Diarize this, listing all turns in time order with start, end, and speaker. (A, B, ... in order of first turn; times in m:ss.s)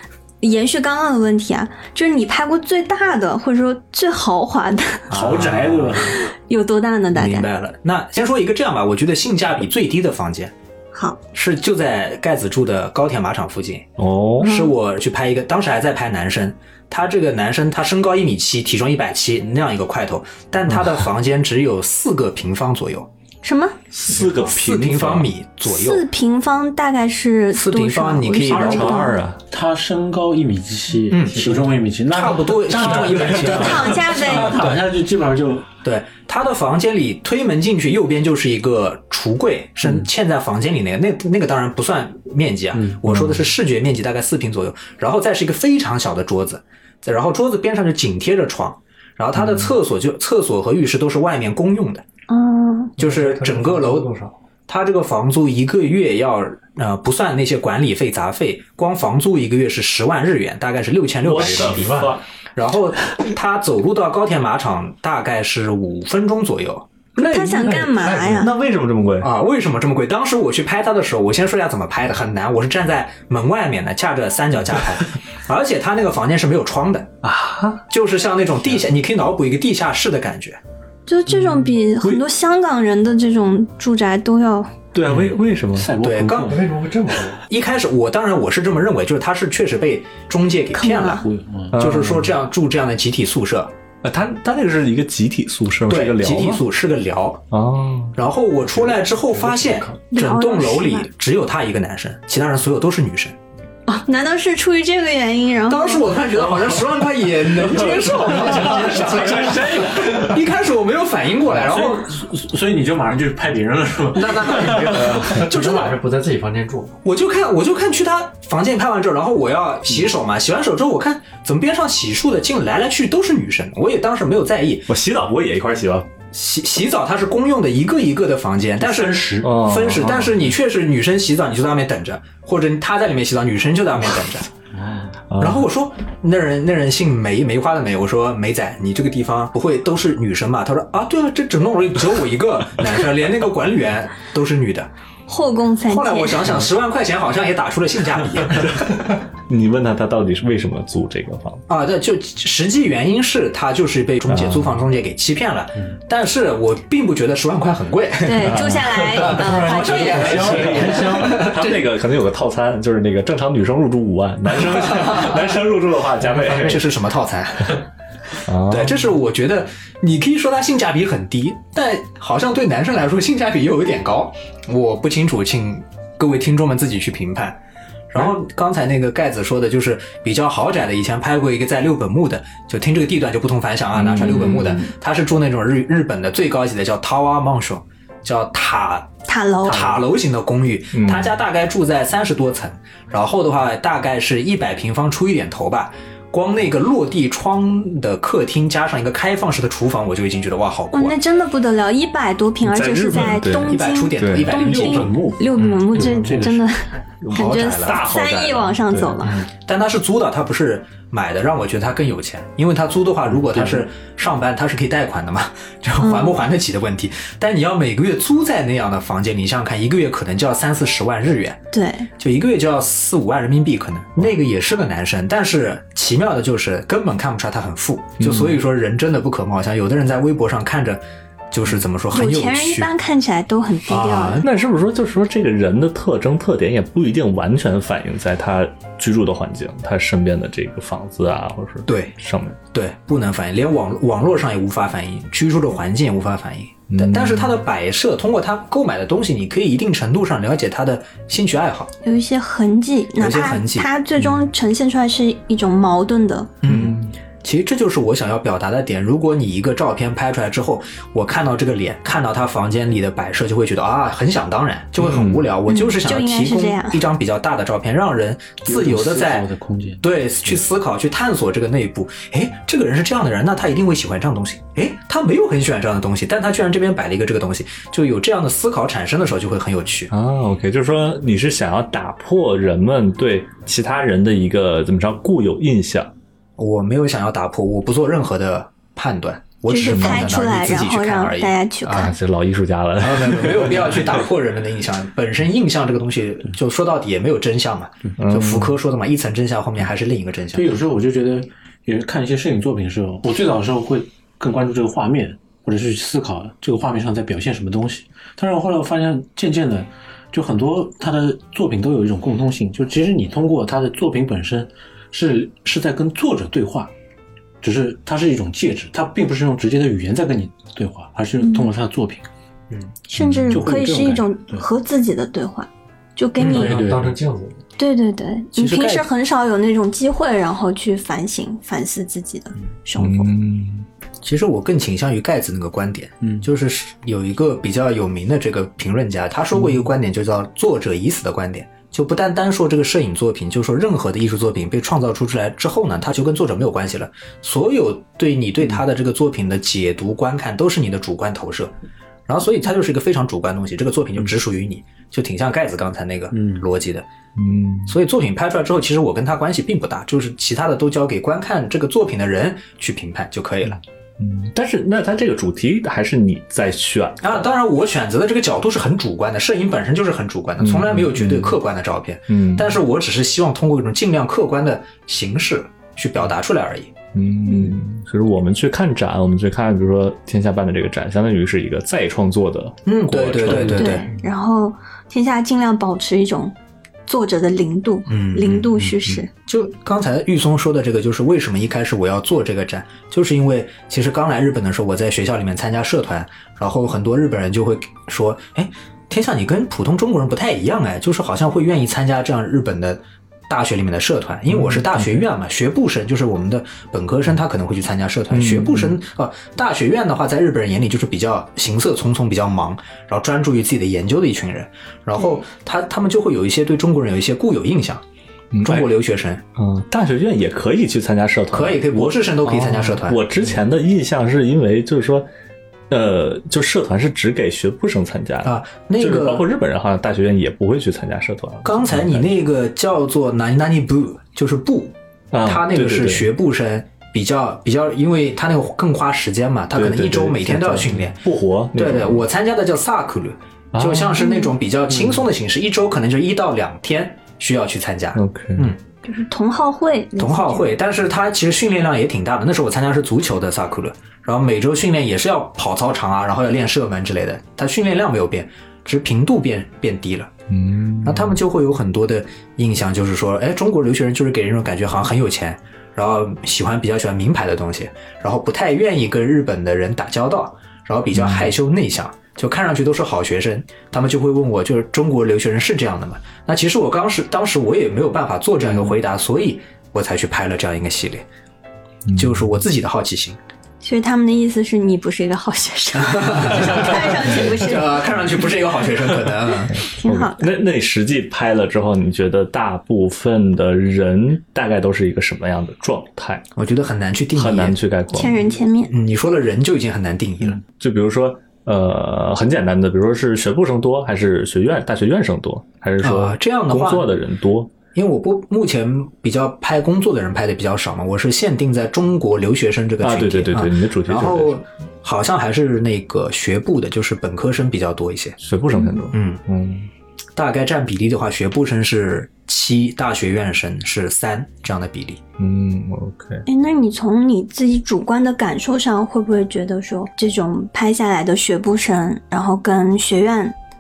0:00.4-0:05.1 A
0:05.1-0:06.1 B
0:05.1-0:06.2 C
0:06.1-0:07.5 A
0:07.1-0:10.5 B
0:10.9-0:11.2 A
0:11.3-0:13.9 B
0:14.0-0:14.5 D
0:14.4-0:23.1 B
0:14.4-0:14.7 A
0:23.4-0:23.8 A
0:23.9-0:25.3 D
0:24.2-0:26.0 B
0:25.6-0:29.2 A
0:27.5-0:29.0 B
0:28.5-0:29.4 D
0:29.5-0:35.7 C
0:31.1-0:31.5 B
0:31.2-0:31.8 E
0:32.1-0:34.8 B
0:33.5-0:34.6 A
0:35.8-0:52.0 B
0:42.7-0:43.0 C
0:52.3-0:52.9 A
0:53.0-0:54.4 E
0:53.0-0:54.1 B
0:54.7-1:07.9 B
1:01.2-1:02.2 D
1:01.4-1:02.0 E
1:07.2-1:08.5 A
1:07.5-1:09.3 D
1:09.2-1:17.1 B
1:17.2-1:17.8 D
1:17.9-1:20.6 B
1:21.1-1:24.8 A
1:24.9-1:25.9 D
1:25.1-1:26.7 C
1:26.0-1:26.6 B
1:26.5-1:27.4 E
1:27.4-1:33.7 B
1:30.7-1:31.2 A
1:31.2-1:31.8 C
1:31.7-1:32.3 D
1:34.0-1:36.6 D
1:35.9-1:37.4 B
1:37.5-1:38.2 D
1:38.1-1:43.4 B
1:39.2-1:40.0 E
1:40.1-1:41.1 A
1:43.9-1:46.2 A
1:45.7-1:52.1 B
1:47.7-1:48.6 D
1:47.8-1:50.4 C
1:48.4-1:49.6 E
1:51.5-1:55.2 C
1:54.1-1:56.0 B
1:54.8-1:57.0 E
1:57.0-2:04.9 B
2:04.9-2:06.1 D
2:06.3-2:14.5 B
2:08.8-2:09.5 C
2:09.4-2:10.4 D
2:14.7-2:15.1 C
2:15.3-2:15.6 D
2:15.4-2:24.9 B
2:25.3-2:26.6 A
2:25.9-2:28.9 B
2:28.6-2:31.6 D
2:31.7-2:41.8 B
2:34.3-2:34.8 D
2:38.2-2:40.8 A
2:38.4-2:39.7 D
2:39.6-2:41.0 C
2:39.9-2:41.5 E
2:40.3-2:46.9 D
2:45.0-2:45.3 B
2:46.4-2:47.8 B
2:48.4-2:49.1 D
2:48.6-2:57.6 B
2:58.1-3:09.1 B
3:03.9-3:04.8 D
3:09.3-3:10.0 A
3:09.6-3:21.2 B
3:10.9-3:11.3 D
3:20.9-3:29.4 A
3:22.6-3:24.5 D
3:23.7-3:26.4 B
3:24.5-3:26.6 C
3:27.2-3:29.4 D
3:27.3-3:28.0 B
3:29.3-3:41.6 B
3:33.4-3:33.8 C
3:36.0-3:36.4 A
3:41.7-3:42.1 A
3:42.2-3:52.9 B
3:48.2-3:48.6 D
3:52.1-3:54.4 A
3:53.9-3:54.5 B
3:54.4-4:02.6 D
4:01.9-4:02.1 B
4:02.7-4:11.9 B
4:06.9-4:07.6 D
4:12.0-4:16.6 A
4:13.2-4:13.9 B
4:16.6-4:29.5 B
4:16.6-4:17.1 D
4:25.0-4:25.4 D
4:25.7-4:27.0 A
4:28.6-4:30.0 C
4:30.0-4:40.1 B
4:40.1-4:46.1 D
4:46.6-4:52.0 B
4:49.7-4:52.1 A
4:49.8-4:50.3 D
4:51.8-4:54.2 D
4:53.0-5:00.7 B
4:58.2-4:58.7 D
5:00.5-5:16.9 C
5:17.6-5:22.2 C
5:21.4-5:21.7 A
5:23.1-5:26.8 A
5:23.2-5:23.6 D
5:23.5-5:24.6 C
5:26.4-5:26.7 B
5:26.4-5:27.6 E
5:26.6-5:27.2 C
5:27.8-5:33.3 A
5:28.6-5:29.1 B
5:33.0-5:33.9 D
5:34.2-5:51.7 B
5:36.2-5:36.5 C
5:52.3-5:57.0 B
5:56.3-5:56.6 C
5:57.4-5:58.0 D
5:57.8-6:03.8 B
6:04.2-6:07.5 D
6:07.2-6:16.9 B
6:10.6-6:11.6 D
6:12.3-6:12.8 D
6:17.1-6:24.1 D
6:22.8-6:24.1 B
6:23.5-6:26.5 A
6:27.1-6:29.3 A
6:28.1-6:58.0 B
6:44.5-6:45.2 D
6:48.3-6:49.0 D
6:58.5-6:58.9 D
6:58.6-6:59.4 B
6:59.6-7:05.3 D
7:01.5-7:03.4 B
7:05.9-7:12.3 D
7:08.4-7:09.5 B
7:11.6-7:21.2 B
7:15.3-7:16.3 D
7:19.7-7:22.2 D
7:21.8-7:28.8 B
7:23.7-7:24.2 D
7:24.2-7:24.5 A
7:28.1-7:28.7 D
7:29.0-7:30.7 A
7:30.2-7:40.3 B
7:40.5-7:41.4 D
7:41.0-8:01.2 B
7:51.1-7:51.5 D
8:02.0-8:02.5 D
8:02.1-8:03.4 B
8:03.8-8:08.1 A
8:06.0-8:09.8 B
8:09.7-8:16.4 D
8:09.8-8:10.5 A
8:16.6-8:17.8 B
8:17.3-8:18.4 D
8:18.1-8:18.9 A
8:18.9-8:20.6 B
8:20.6-8:27.7 D
8:26.0-8:27.1 B
8:27.9-8:38.4 B
8:33.0-8:34.6 D
8:38.4-8:39.9 D
8:38.7-8:39.0 A
8:39.1-8:39.4 B
8:40.4-8:45.2 B
8:45.4-8:46.4 D
8:46.5-8:53.5 A